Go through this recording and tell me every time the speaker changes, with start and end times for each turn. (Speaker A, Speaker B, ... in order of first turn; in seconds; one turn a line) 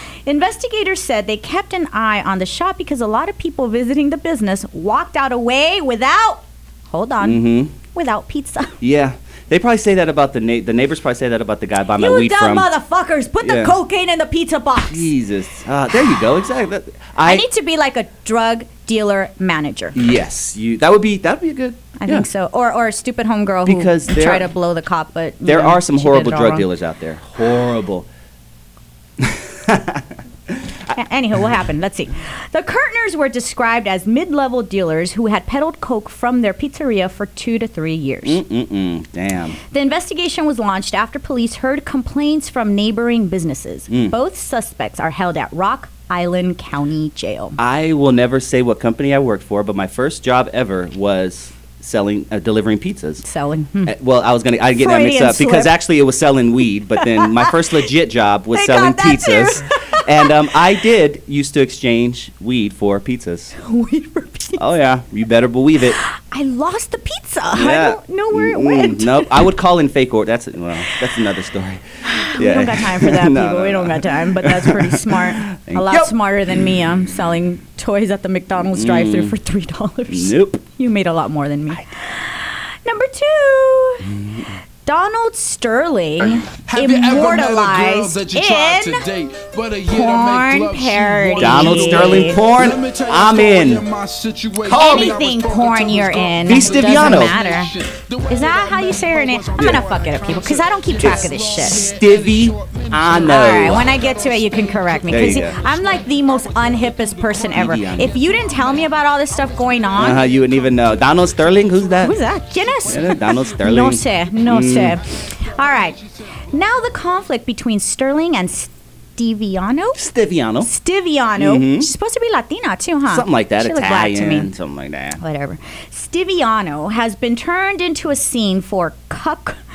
Speaker A: 0.3-8.7
Speaker B: 7.2-7.7
Speaker B: 8.8-12.7
Speaker A: 12.0-15.1
Speaker B: 13.4-13.7
Speaker B: 14.9-17.5
Speaker A: 17.2-20.0
Speaker B: 19.9-22.3
Speaker A: 22.0-26.7
Speaker B: 23.6-24.5
Speaker B: 25.4-28.1
Speaker B: 29.2-30.0
Speaker A: 31.0-38.4
Speaker B: 38.2-39.6
Speaker A: 39.7-47.6
Speaker B: 43.9-44.1
Speaker B: 47.6-53.2
Speaker A: 53.2-53.9
Speaker B: 53.9-63.5
Speaker A: 54.8-55.7
Speaker A: 57.0-57.5
Speaker A: 58.5-60.0
Speaker A: 63.6-64.6
Speaker B: 64.6-66.0
Speaker A: 66.0-69.5
Speaker B: 67.5-76.1
Speaker A: 72.0-84.1
Speaker B: 78.5-79.3
Speaker B: 80.1-80.6
Speaker B: 84.0-84.6
Speaker A: 84.9-89.1
Speaker C: 86.3-110.6
Speaker A: 89.9-92.5
Speaker B: 91.4-93.8
Speaker A: 94.7-97.7
Speaker B: 94.7-95.2
Speaker B: 96.5-97.4
Speaker A: 98.3-101.9
Speaker B: 99.6-99.8
Speaker B: 101.0-103.9
Speaker A: 103.2-110.3
Speaker B: 105.1-105.5
Speaker B: 107.5-108.2
Speaker B: 110.0-112.2
Speaker A: 112.0-116.0
Speaker B: 112.9-115.0
Speaker C: 115.6-116.4
Speaker A: 116.5-120.0
Speaker B: 120.0-120.7
Speaker A: 120.6-124.5
Speaker B: 121.4-121.9
Speaker B: 123.1-125.2
Speaker A: 125.2-129.6